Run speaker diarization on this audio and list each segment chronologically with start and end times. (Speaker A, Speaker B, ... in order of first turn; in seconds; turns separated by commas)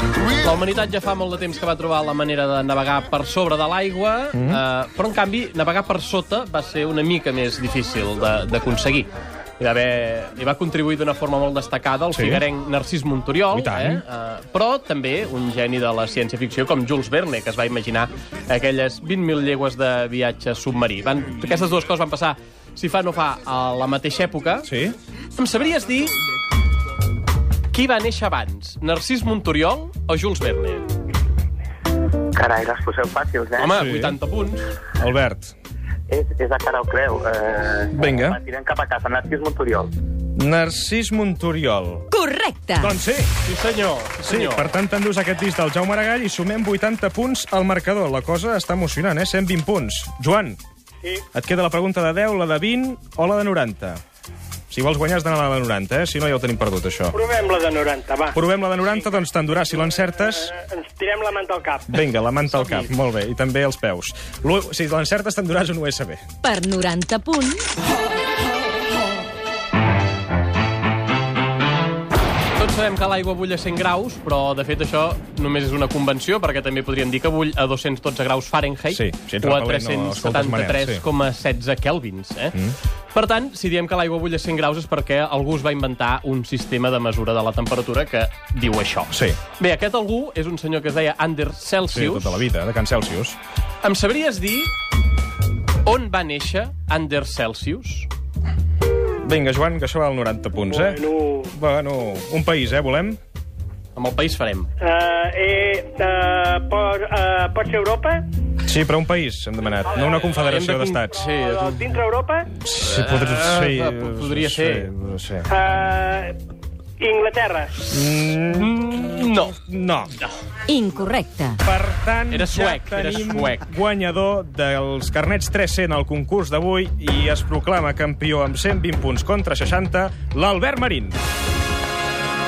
Speaker A: 0.4-24.7, Speaker B: 4.3-4.6, Speaker B: 12.1-12.4, Speaker B: 13.5-14.0, Speaker B: 24.6-25.0, Speaker A: 25.4-26.2, Speaker A: 27.7-30.9, Speaker C: 32.4-33.8, Speaker A: 33.6-34.6, Speaker B: 33.7-34.2, Speaker B: 35.0-35.5, Speaker C: 36.1-39.9, Speaker B: 37.9-38.4, Speaker B: 40.4-42.1, Speaker D: 42.1-43.0, Speaker B: 42.8-43.3, Speaker A: 43.4-44.7, Speaker B: 44.2-50.6, Speaker B: 51.3-54.0, Speaker B: 54.7-57.1, Speaker E: 57.1-58.4, Speaker B: 58.3-60.5, Speaker E: 60.3-61.9, Speaker B: 61.9-66.2, Speaker A: 62.5-62.9, Speaker D: 66.4-67.7, Speaker A: 72.5-82.6, Speaker B: 78.9-81.0, Speaker A: 83.1-92.5, Speaker B: 89.1-89.4, Speaker B: 91.9-93.4, Speaker A: 93.8-94.7, Speaker A: 95.8-98.1, Speaker B: 99.2-101.0, Speaker E: 100.7-101.5, Speaker B: 101.5-103.2, Speaker A: 104.0-104.7, Speaker E: 104.8-108.3, Speaker B: 108.7-111.2, Speaker A: 110.4-111.9, Speaker E: 111.4-112.5, Speaker B: 112.6-115.5, Speaker A: 112.8-114.9, Speaker E: 115.5-116.4, Speaker E: 117.0-117.7, Speaker B: 117.9-120.1, Speaker A: 118.5-119.5, Speaker D: 120.7-121.6, Speaker B: 121.6-131.2, Speaker A: 122.3-123.7